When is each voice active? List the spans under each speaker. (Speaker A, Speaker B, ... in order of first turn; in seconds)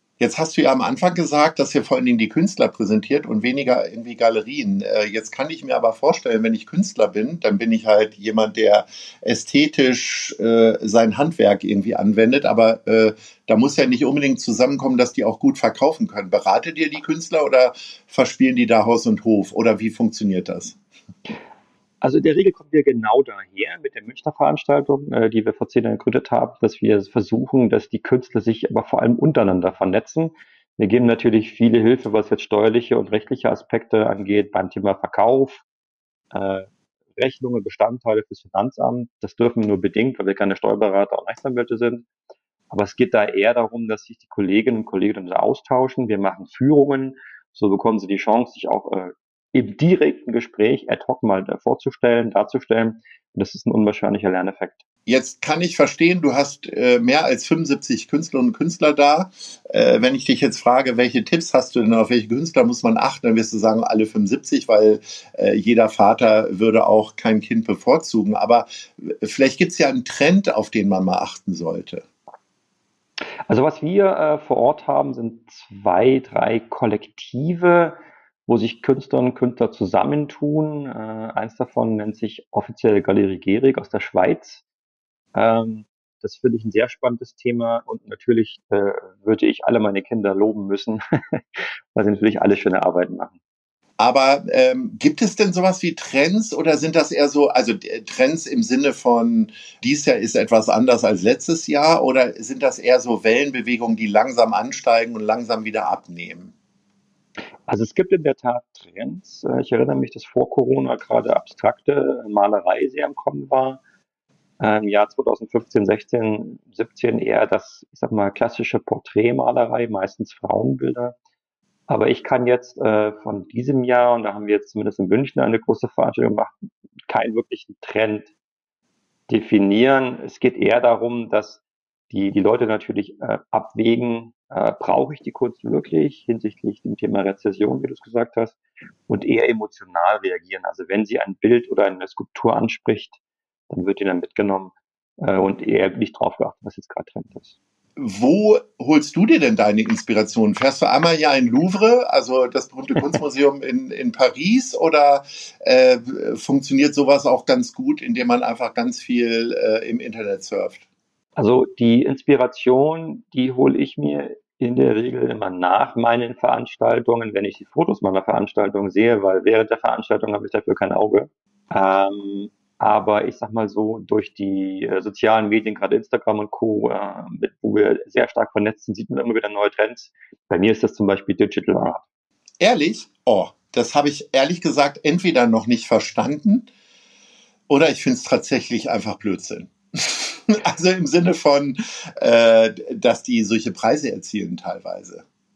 Speaker A: 0.2-20.8, 55.1-72.0, 94.0-106.5, 148.0-160.8, 182.6-186.7, 187.7-195.2
Speaker B: 22.0-35.6, 36.3-42.1, 42.7-54.8, 73.5-84.6, 85.3-93.3, 107.7-113.8, 114.6-121.1, 121.9-128.3, 129.3-143.2, 143.7-147.5, 161.4-182.0